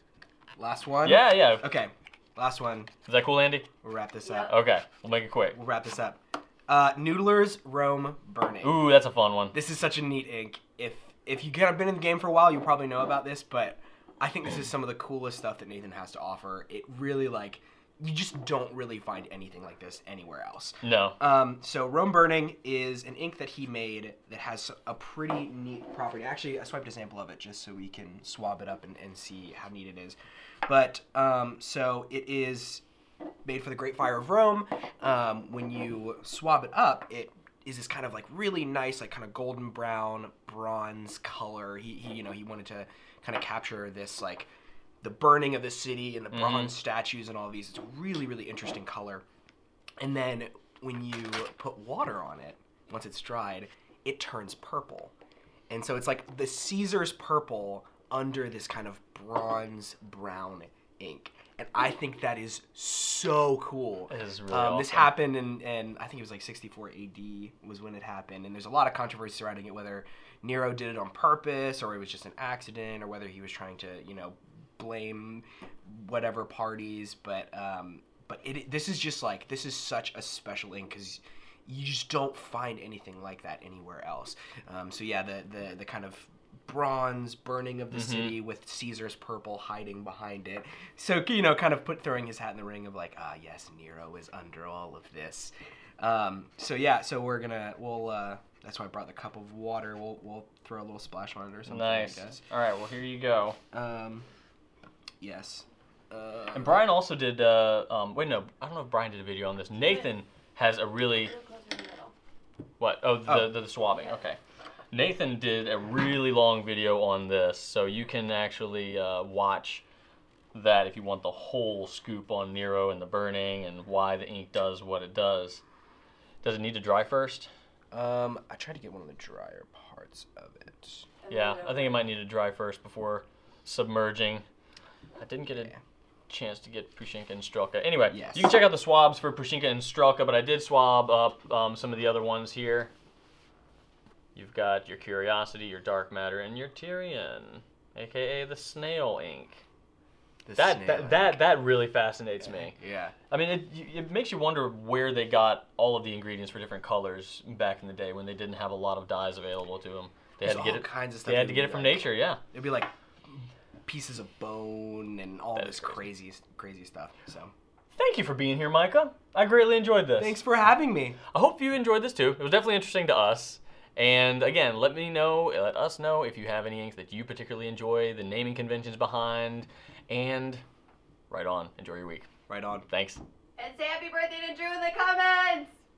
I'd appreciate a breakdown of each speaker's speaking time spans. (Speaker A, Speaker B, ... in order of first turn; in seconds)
Speaker A: 0.6-2.9, 3.8-4.5, 5.5-8.9, 9.5-32.8, 33.4-44.5, 45.0-49.2, 50.0-55.1, 55.7-102.4, 103.7-104.2, 105.2-106.9, 113.2-113.6, 127.9-131.1, 138.1-138.6, 150.4-151.4, 152.4-153.1, 160.4-167.5, 170.2-171.2, 182.5-182.8
Speaker B: 1.0-1.6, 3.0-3.7, 4.4-5.6, 8.6-9.6, 20.8-21.2, 46.3-46.8, 64.1-65.1, 87.9-88.4, 101.7-103.6, 106.5-111.3, 112.8-114.4, 114.9-119.8, 120.5-125.6, 126.4-127.5, 131.3-134.4, 135.2-135.7, 136.3-142.9, 144.3-149.6, 150.6-152.8, 153.3-162.4, 165.6-166.0, 167.9-170.4, 171.3-180.6, 181.3-182.3, 182.9-183.2
Speaker C: 111.2-112.1, 131.3-132.0, 183.6-185.7